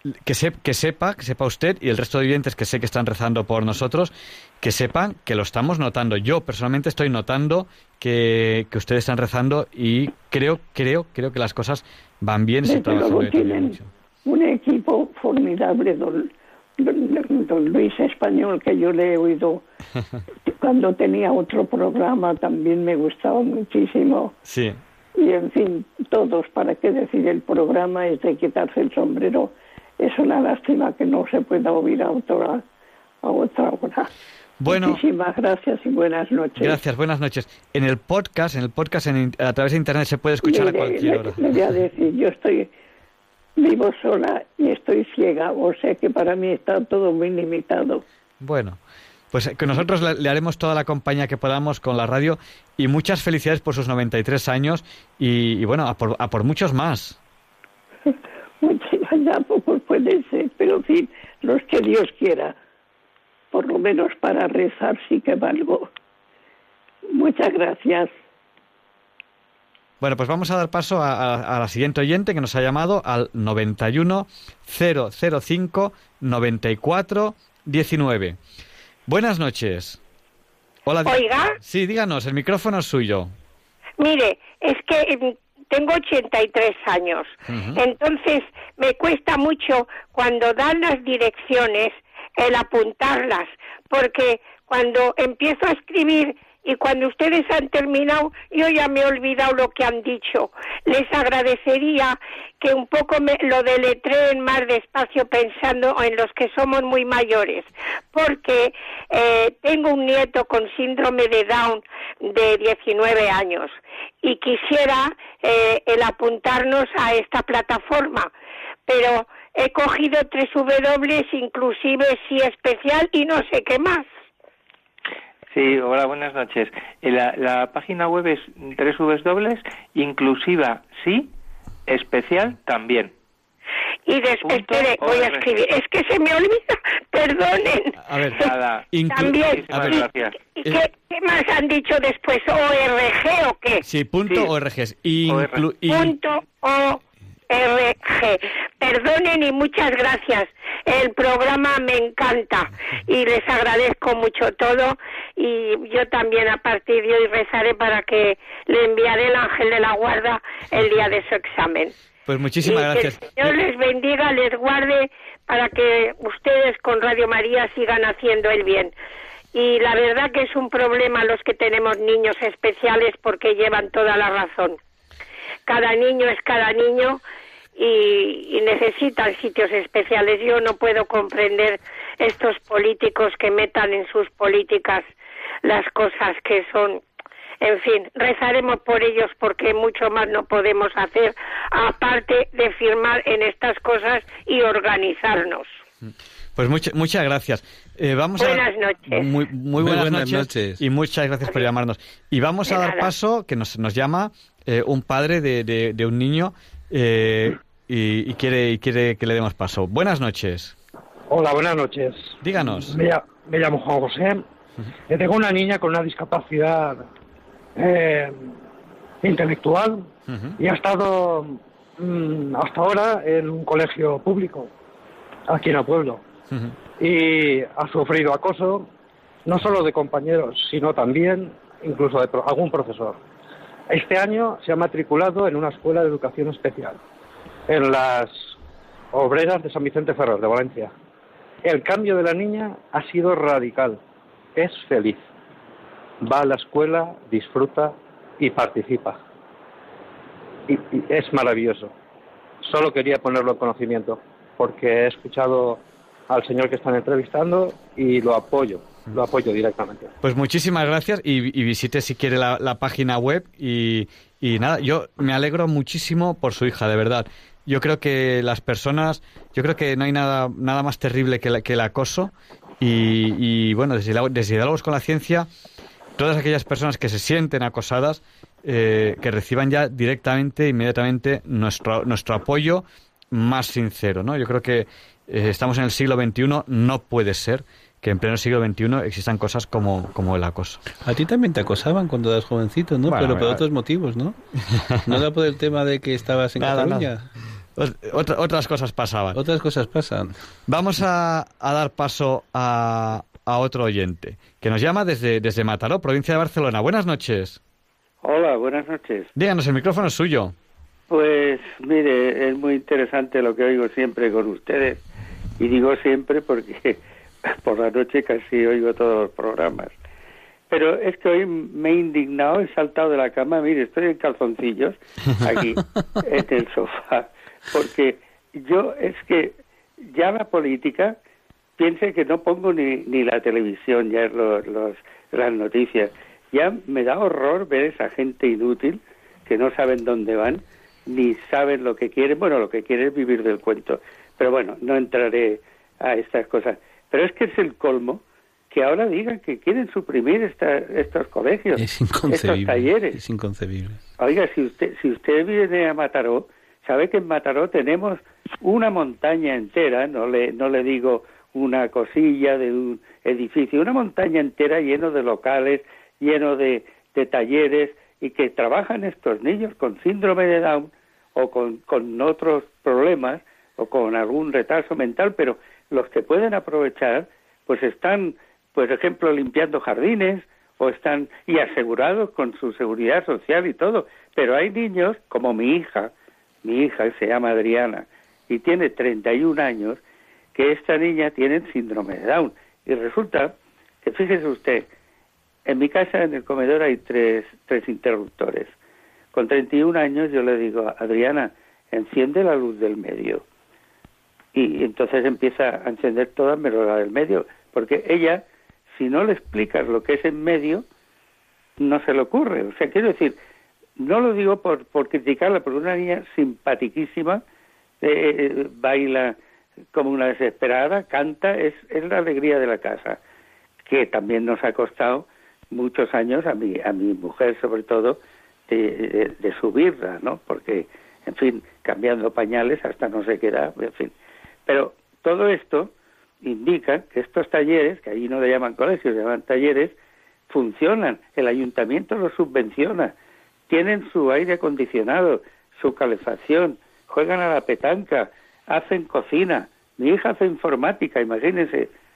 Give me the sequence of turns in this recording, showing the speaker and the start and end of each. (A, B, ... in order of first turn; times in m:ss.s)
0:00.2-0:13.9 A
0:12.6-0:19.6 B
0:20.5-0:24.4 B
0:24.5-0:24.8 A
0:25.2-0:32.6 B
0:33.2-0:34.1 B
0:34.6-0:35.0 A
0:34.6-0:36.8 B
0:36.6-0:41.5 A
0:40.4-0:42.7 B
0:43.6-0:48.0 B
0:48.4-0:48.8 A
0:49.3-0:57.2 A
0:58.6-1:02.6 B
1:03.5-1:05.9 B
1:07.2-1:08.1 B
1:10.0-1:18.4 A
1:19.1-1:20.0 A
1:20.8-1:23.3 A
1:21.1-1:21.6 C
1:24.0-1:58.3 C
1:27.5-1:27.8 A
1:58.9-2:04.1 C
2:05.5-2:11.3 D
2:11.9-2:13.1 D
2:14.1-2:18.0 C
2:14.4-2:15.5 D
2:18.0-2:18.4 A
2:18.4-2:18.8 D
2:18.9-2:20.0 A
2:19.1-2:23.8 C
2:19.5-2:20.3 D
2:23.8-2:26.2 A
2:25.3-2:25.6 D
2:25.9-2:41.9 C
2:42.3-2:43.6 A
2:42.6-2:48.9 C
2:49.5-2:54.8 C
2:55.7-2:57.2 C
2:57.8-3:05.1 C
3:05.6-3:07.0 C
3:07.6-3:15.7 C
3:16.6-3:30.8 A
3:18.4-3:19.3 C
3:19.8-3:20.8 E
3:22.7-3:23.1 C
3:31.3-3:34.4 F
3:32.4-3:33.0 A
3:35.1-3:37.0 F
3:37.8-3:38.4 F
3:39.2-3:40.1 F
3:40.3-3:40.6 A
3:40.6-3:44.7 F
3:45.5-3:46.2 F
3:47.0-3:48.9 F
3:49.5-3:53.2 F
3:53.9-3:57.0 F
3:57.7-3:58.5 F
3:59.1-4:00.9 F
4:01.6-4:04.0 F
4:04.6-4:05.2 F
4:06.2-4:09.2 F
4:10.7-4:11.9 F
4:12.6-4:20.1 F
4:20.2-4:35.5 A
4:36.2-4:50.8 A
4:51.0-4:54.4 E
4:53.1-4:53.6 A
4:55.0-4:57.3 E
4:56.6-4:57.1 A
4:57.8-4:59.4 A
4:59.3-5:00.4 E
5:00.7-5:07.6 A
5:08.2-5:09.3 G
5:09.4-5:10.5 A
5:11.1-5:15.0 G
5:15.6-5:17.0 G
5:17.5-5:19.9 G
5:20.7-5:31.2 G
5:31.8-5:53.2 G
5:51.8-5:54.0 E
5:54.2-6:26.1 G
6:26.6-6:30.0 G
6:30.6-6:34.9 G
6:35.7-6:38.7 G
6:39.3-6:43.4 G
6:44.6-6:50.8 G
6:51.8-6:53.4 G
6:54.0-6:57.4 G
6:58.0-6:59.4 G
6:59.9-7:03.2 G
7:03.9-7:14.1 G
7:14.7-7:15.9 G
7:16.4-7:20.0 G
7:20.5-7:23.1 G
7:23.7-7:31.9 G